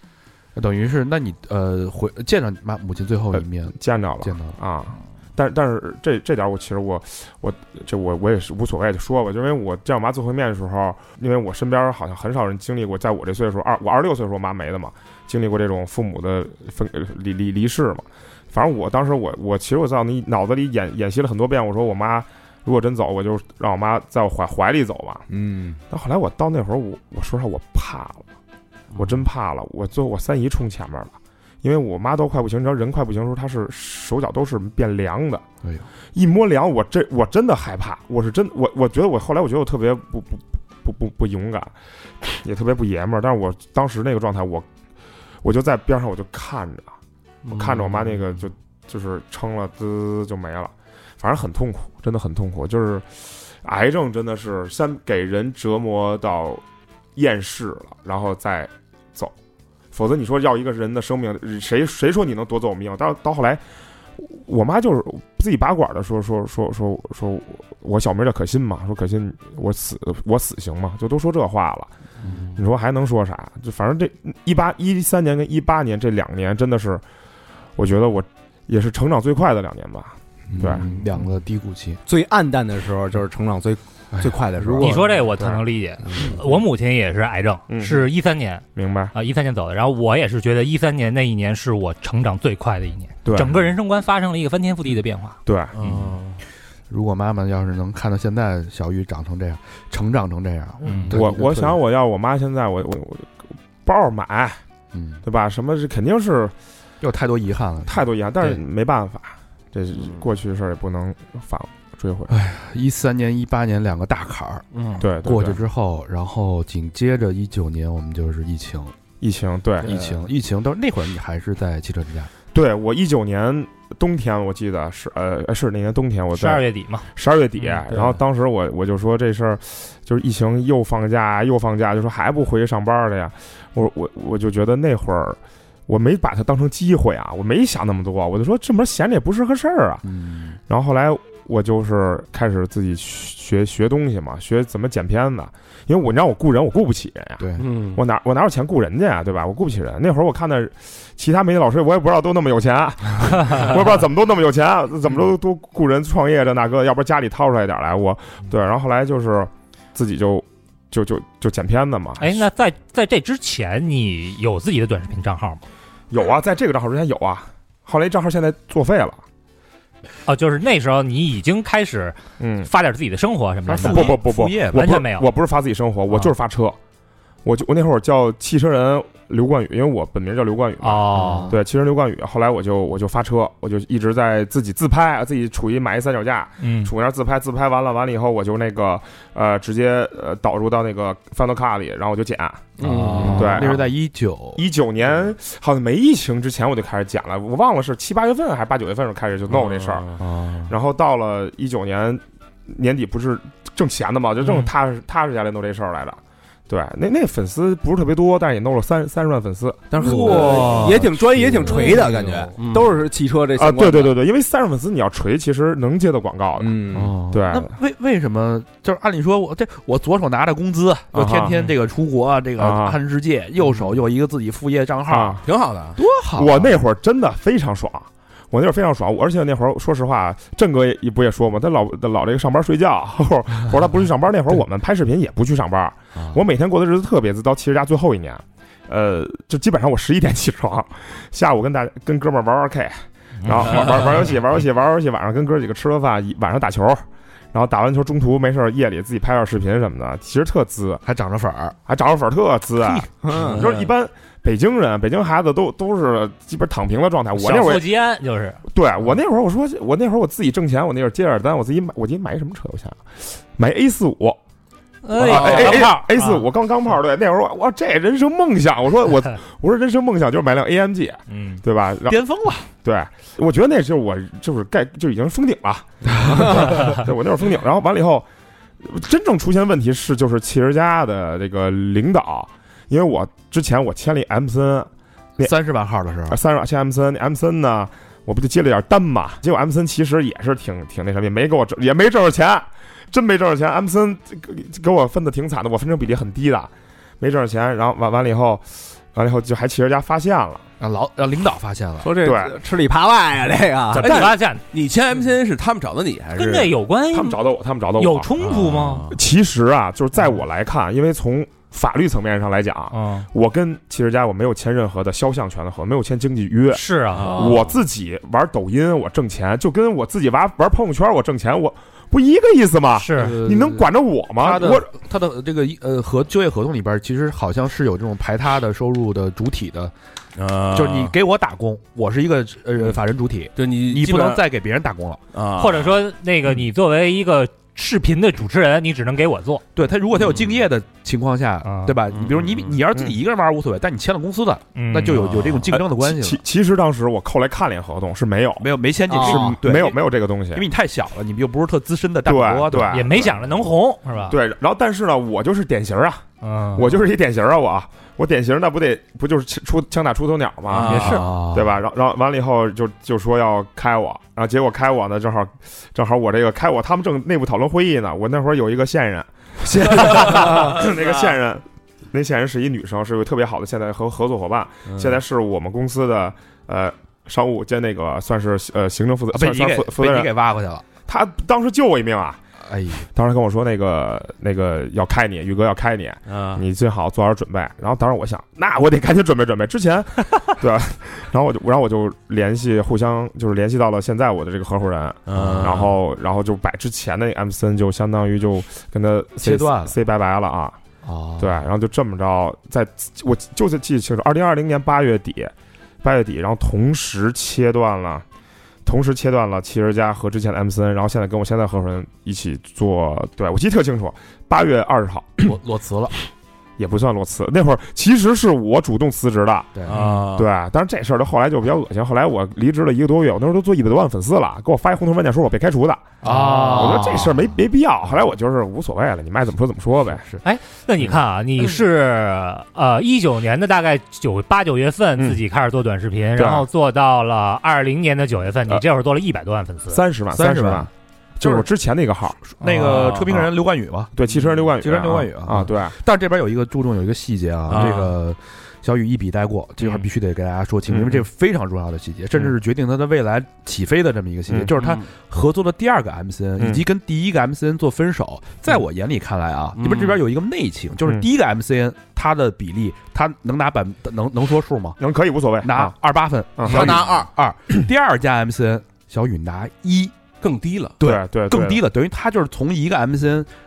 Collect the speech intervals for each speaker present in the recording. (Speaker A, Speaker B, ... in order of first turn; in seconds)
Speaker A: 0.6-4.6, 80.5-82.0, 84.1-85.0, 96.9-101.8, 104.9-105.2, 107.0-108.0, 112.3-114.7, 115.2-119.0, 119.8-122.3, 140.0-140.6, 147.4-147.7, 173.7-175.0, 181.2-181.5, 192.8-194.6, 200.2-200.7, 209.9-211.1, 211.6-212.2, 216.9-225.4, 226.0-226.8, 251.1-251.8, 265.2-265.9, 272.1-272.7, 276.0-277.0, 285.4-286.4, 300.8-302.1, 323.1-329.9, 330.7-335.2, 339.8-346.4, 348.6-353.3, 360.9-361.8, 379.3-380.9, 382.6-383.1, 395.4-395.8, 399.4-400.0, 401.0-401.6, 415.4-416.2, 419.8-420.2, 426.2-427.5, 440.3-440.9, 441.4-441.7, 442.5-444.2, 444.7-465.0, 465.6-470.2, 471.0-473.5
Speaker B: 3.3-25.2, 25.9-28.2, 29.0-35.4, 36.1-44.7, 45.4-47.0, 47.5-56.6, 57.1-59.3, 59.9-63.6, 64.2-71.9, 72.5-77.0, 77.8-80.8, 85.4-85.6, 87.7-88.1, 88.8-89.1, 93.2-93.6, 95.5-95.8, 101.1-104.6, 105.2-106.5, 107.9-112.4, 115.0-115.6, 119.2-120.0, 122.5-140.0, 140.7-162.4, 166.1-169.2, 172.4-172.7, 173.8-176.8, 177.4-192.7, 193.3-193.9, 194.6-200.1, 200.7-210.0, 213.6-216.7, 217.3-217.8, 221.1-221.6, 222.6-223.0, 225.1-225.4, 226.3-251.0, 251.9-257.9, 258.7-264.4, 265.1-272.2, 272.8-278.3, 278.8-285.5, 286.3-300.6, 302.2-302.6, 304.0-304.4, 307.1-308.3, 309.1-324.9, 345.7-350.6, 352.2-353.4, 354.3-380.3, 381.1-382.4, 383.1-400.8, 401.4-408.2, 408.9-415.6, 416.8-419.8, 420.3-426.1, 426.7-430.2, 436.4-436.7, 439.9-442.4, 443.3-443.6, 444.1-446.0, 450.9-451.2, 456.6-456.8, 465.0-465.9, 466.6-467.0, 471.0-471.9
Speaker C: 25.3-25.8, 82.1-85.2, 209.9-214.1, 216.6-217.1, 253.2-253.6, 302.0-304.2, 349.1-349.6
Speaker D: 47.5-48.2, 95.7-96.4, 114.7-115.0, 147.6-148.0, 192.8-193.6, 199.5-200.2, 212.6-212.9, 225.4-226.0, 253.4-253.7, 304.0-306.8, 308.4-309.2, 317.1-317.6, 330.4-331.1, 333.6-334.4, 335.3-336.0, 340.2-340.6, 342.1-342.8, 360.7-361.2, 386.3-386.6, 395.3-395.9, 419.9-420.5, 442.9-443.2, 447.7-448.1, 454.8-455.1, 459.8-460.2, 466.7-467.3, 470.4-471.0
Speaker E: 84.8-95.4, 100.8-101.1, 126.3-127.1, 162.2-165.6, 170.3-175.3, 180.8-181.5, 186.6-186.9, 257.4-258.6, 265.0-266.4, 271.3-271.6, 304.0-304.6, 306.4-307.4, 308.0-309.1, 312.9-313.3, 316.7-317.5, 323.0-323.4, 335.6-339.6, 341.6-342.0, 344.8-345.4, 352.9-354.4, 356.4-356.9, 360.9-361.3, 430.4-440.0, 442.6-443.0